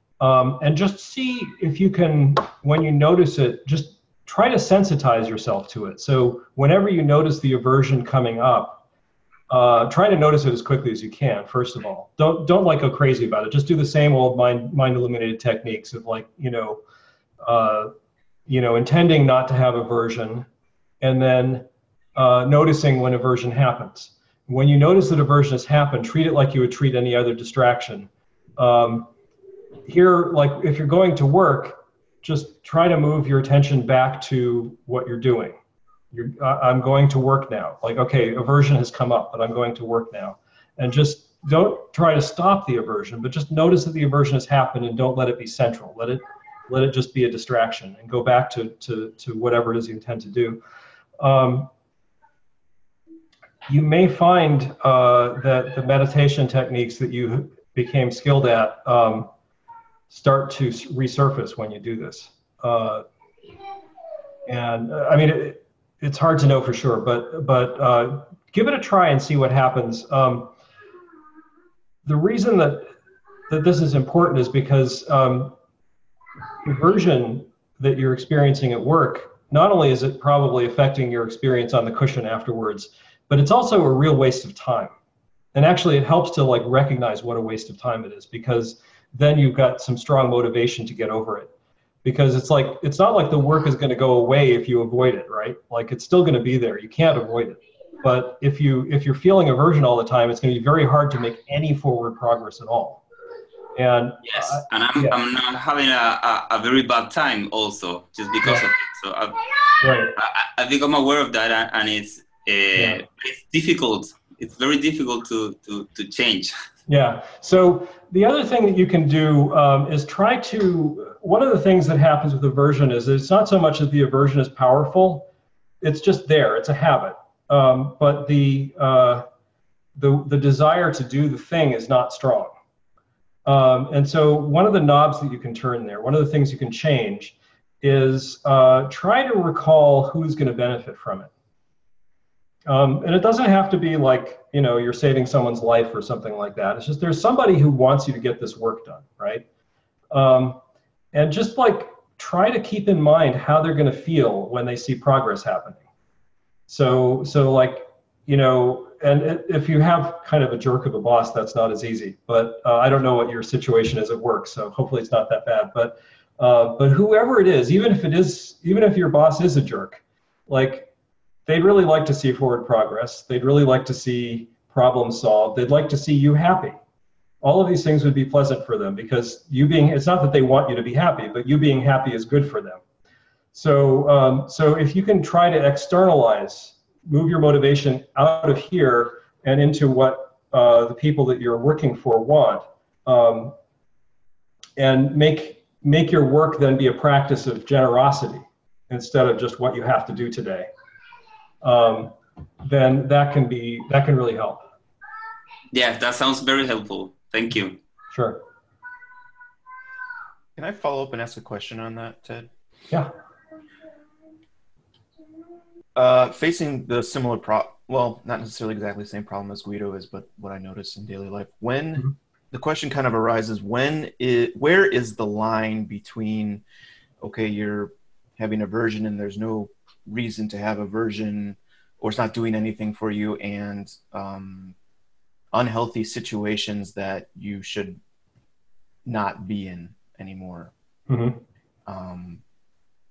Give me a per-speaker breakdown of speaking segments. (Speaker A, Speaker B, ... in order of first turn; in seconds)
Speaker A: 0.2-8.8, 9.5-16.8, 17.4-17.9, 18.5-20.5, 21.0-29.1, 29.9-35.6, 36.1-50.6, 51.2-51.7, 53.7-59.3, 60.1-63.0, 64.5-70.5, 72.1-72.9, 73.5-75.5, 76.6-84.9, 85.5-91.5, 92.0-103.0, 103.8-105.2, 109.8-110.1, 112.8-113.0, 116.9-125.3, 125.8-129.3, 130.0-132.5, 133.5-141.3, 142.7-149.4, 150.1-150.6, 151.1-155.8, 156.7-170.9, 171.5-176.8, 177.4-182.8, 183.5-193.6, 194.8-200.7, 201.6-204.7, 208.1-208.4, 241.1-241.4
Speaker B: 104.2-109.4, 110.2-116.5, 205.7-207.8
Speaker C: 210.6-212.5, 215.9-226.6, 227.2-234.8, 235.5-238.0, 239.1-240.7, 241.9-242.4